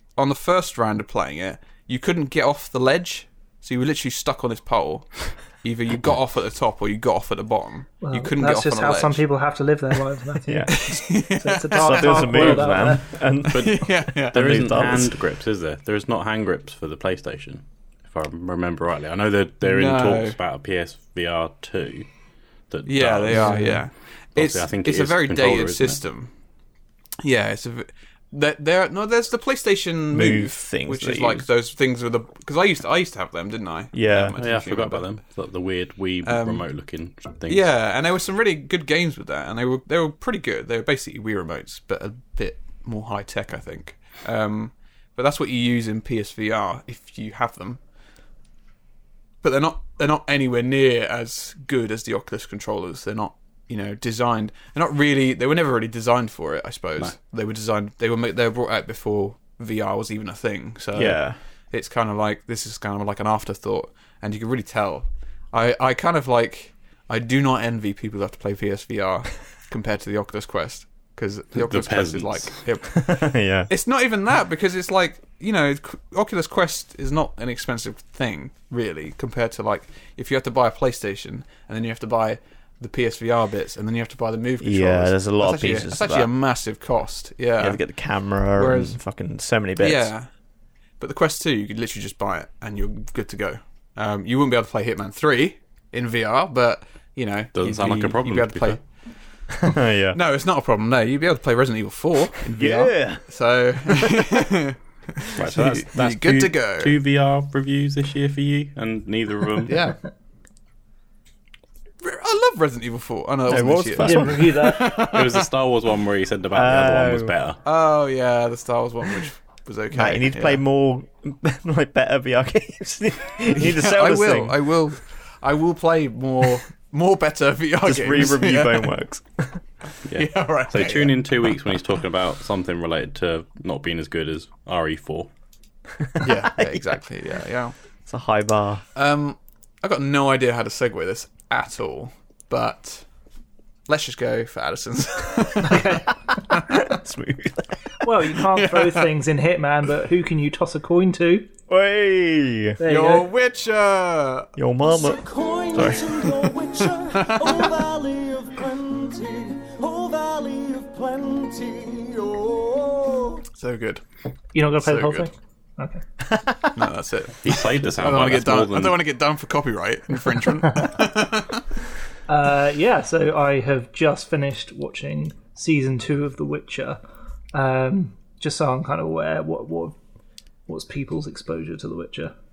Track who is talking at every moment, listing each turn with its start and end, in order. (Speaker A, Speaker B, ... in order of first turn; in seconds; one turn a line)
Speaker A: 0.2-9.2
Speaker B: 8.0-13.1
Speaker C: 10.5-10.8
Speaker A: 10.7-12.5
Speaker C: 11.7-15.2
Speaker D: 12.3-12.9
Speaker A: 13.4-14.6
Speaker D: 13.5-22.1
Speaker A: 19.6-20.4
Speaker D: 22.7-23.7
Speaker A: 22.9-26.3
Speaker C: 23.3-23.8
Speaker D: 24.3-26.0
Speaker A: 27.2-35.0
Speaker C: 30.1-31.4
Speaker C: 33.9-34.4
Speaker D: 34.4-37.7
Speaker A: 36.2-36.6
Speaker A: 37.5-47.8
Speaker A: 49.4-87.8
Speaker C: 60.9-61.4
Speaker D: 71.6-72.6
Speaker C: 72.9-73.7
Speaker C: 84.6-86.3
Speaker C: 87.6-90.1
Speaker A: 88.5-89.0
Speaker A: 89.8-90.3
Speaker A: 91.0-98.8
Speaker D: 97.5-98.8
Speaker C: 99.6-100.2
Speaker A: 100.1-107.0
Speaker C: 102.5-103.2
Speaker C: 103.8-104.2
Speaker D: 105.3-109.8
Speaker A: 109.7-110.0
Speaker A: 112.0-115.5
Speaker C: 113.5-114.7
Speaker B: 114.0-115.0
Speaker D: 114.8-117.6
Speaker C: 116.5-117.3
Speaker A: 117.6-120.6
Speaker C: 119.9-124.6
Speaker A: 123.5-128.9
Speaker C: 127.8-129.6
Speaker D: 130.1-135.3
Speaker A: 130.1-131.2
Speaker C: 136.1-136.9
Speaker A: 136.2-137.7
Speaker C: 138.1-138.8
Speaker A: 138.9-143.1
Speaker A: 143.9-146.0
Speaker B: 145.6-146.4
Speaker C: 146.7-148.1
Speaker B: 148.0-151.5
Speaker A: 148.5-149.1
Speaker C: 151.7-152.8
Speaker B: 152.8-153.3
Speaker A: 152.8-154.5
Speaker C: 154.6-156.2
Speaker E: 154.8-163.4
Speaker A: 157.2-157.5
Speaker A: 163.6-164.0
Speaker B: 164.5-166.0
Speaker A: 164.8-165.3
Speaker C: 166.2-166.7
Speaker A: 166.7-171.6
Speaker D: 167.4-169.0
Speaker B: 172.3-177.0
Speaker B: 177.5-179.9
Speaker B: 180.7-182.3